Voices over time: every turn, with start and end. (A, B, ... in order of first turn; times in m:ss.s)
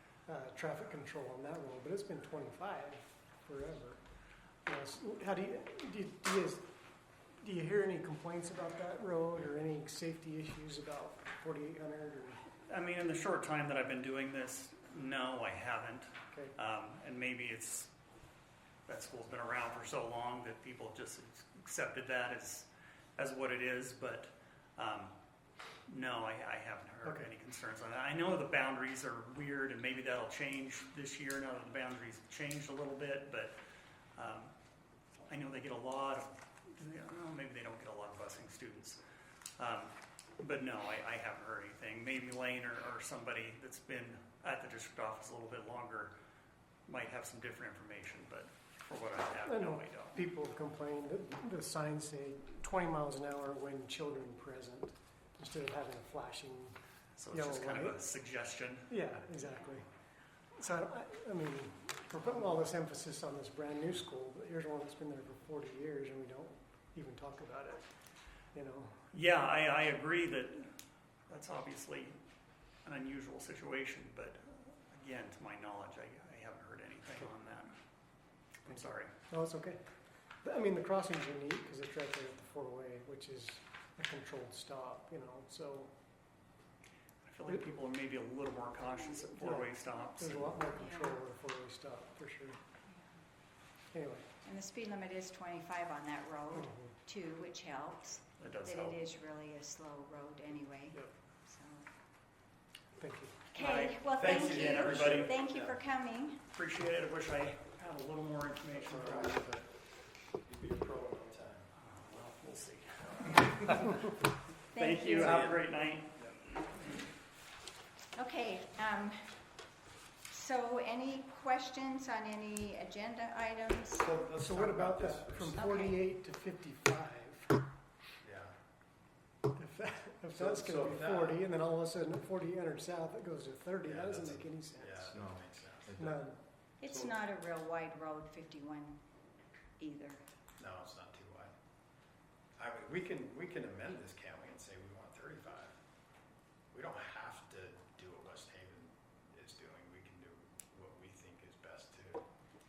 0:00.2-0:04.0 A
0:04.6-0:06.7 A
0:07.4-0:12.4 A
0:12.7-0:17.9 B
0:18.9-0:25.1 B
0:25.9-0:33.6 B
0:34.2-0:34.5 B
0:35.3-0:39.0 B
0:39.6-0:46.1 B
0:46.9-0:50.2 B
0:49.4-0:56.8 A
0:57.2-0:58.9 B
0:57.3-0:58.0 A
0:58.9-0:59.8 A
1:00.6-1:07.9 A
1:08.5-1:09.0 A
1:09.1-1:10.7 B
1:11.3-1:12.2 B
1:12.8-1:17.7 B
1:18.6-1:19.1 B
1:18.7-1:19.8 A
1:20.4-1:25.9 A
1:27.2-1:30.6 B
1:29.3-1:32.6 A
1:30.7-1:31.2 C
1:33.9-1:34.3 A
1:34.4-1:41.9 C
1:36.5-1:36.9 A
1:38.4-1:39.0 B
1:42.9-1:43.4 A
1:43.5-1:46.4 C
1:43.6-1:45.4 B
1:44.2-1:45.8 D
1:46.5-1:49.6 B
1:48.7-1:49.7 D
1:50.4-1:51.7 D
1:51.7-1:54.1 B
1:54.7-1:55.5 C
1:54.7-1:56.1 B
1:55.2-1:55.6 D
1:58.2-1:59.4 C
2:00.3-2:04.1 C
2:04.0-2:05.8 D
2:04.4-2:07.6 A
2:05.6-2:06.0 C
2:08.2-2:08.5 D
2:09.6-2:15.2 A
2:10.3-2:11.4 D
2:13.8-2:16.2 D
2:16.0-2:16.4 A
2:16.8-2:19.0 C
2:19.8-2:20.2 C
2:20.6-2:21.5 D
2:22.6-2:25.8 D
2:26.7-2:32.2 D